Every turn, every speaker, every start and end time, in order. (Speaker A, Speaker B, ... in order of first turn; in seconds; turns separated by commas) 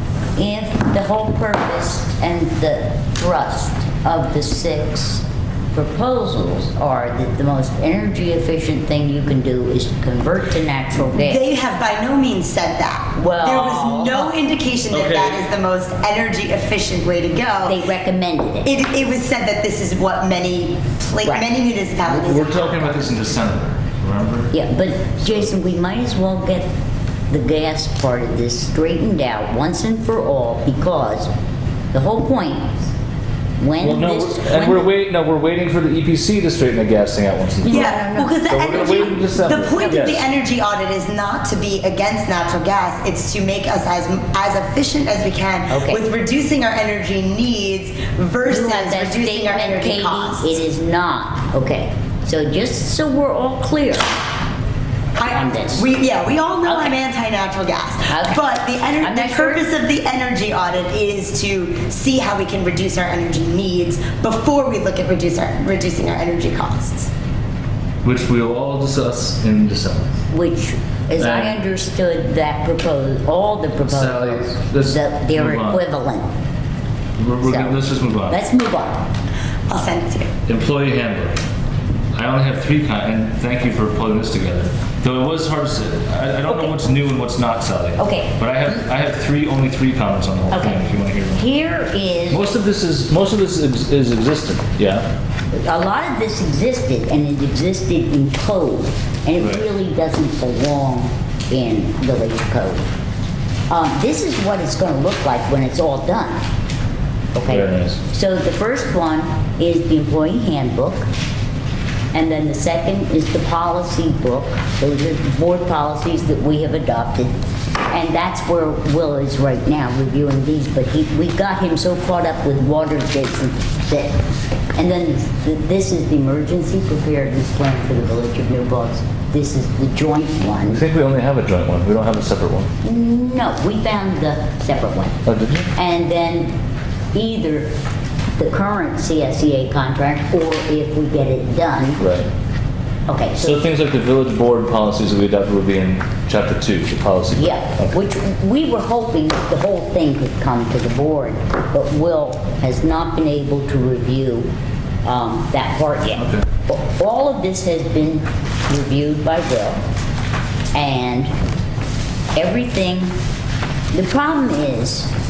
Speaker A: 0.3-11.4, Speaker B: 11.1-17.8, Speaker A: 13.2-14.3, Speaker C: 14.9-15.4, Speaker A: 17.6-18.7, Speaker B: 18.6-23.1, Speaker A: 21.2-21.5, Speaker C: 22.1-24.5, Speaker A: 24.5-26.7, Speaker C: 25.2-25.5, Speaker A: 27.3-31.3, Speaker A: 31.9-32.7, Speaker A: 33.6-34.9, Speaker C: 33.8-40.2, Speaker A: 37.6-39.2, Speaker B: 37.7-50.6, Speaker A: 45.7-46.0, Speaker A: 48.4-54.1, Speaker B: 55.2-67.1, Speaker A: 55.3-55.9, Speaker A: 56.7-56.9, Speaker A: 58.1-59.7, Speaker C: 68.0-70.2, Speaker A: 70.3-76.3, Speaker C: 71.2-71.5, Speaker C: 73.8-75.8, Speaker C: 77.2-78.4, Speaker A: 77.4-79.0, Speaker B: 79.7-80.3, Speaker C: 80.5-81.4, Speaker C: 82.1-91.4, Speaker A: 86.5-86.8, Speaker A: 88.0-88.8, Speaker A: 90.5-92.6, Speaker C: 92.3-95.1, Speaker A: 95.5-102.8, Speaker C: 99.4-99.7, Speaker A: 103.7-106.4, Speaker C: 107.3-108.0, Speaker A: 107.4-111.1, Speaker A: 112.1-117.3, Speaker A: 117.9-124.2, Speaker A: 124.8-130.8, Speaker C: 130.6-132.7, Speaker A: 132.8-135.2, Speaker C: 135.3-135.7, Speaker A: 135.7-136.5, Speaker A: 137.1-137.7, Speaker A: 138.4-142.0, Speaker C: 142.0-142.3, Speaker A: 143.1-143.6, Speaker C: 143.4-148.0, Speaker A: 147.3-154.5, Speaker A: 155.0-159.8, Speaker C: 156.2-156.4, Speaker A: 160.7-161.3, Speaker A: 162.3-163.2, Speaker A: 163.9-165.1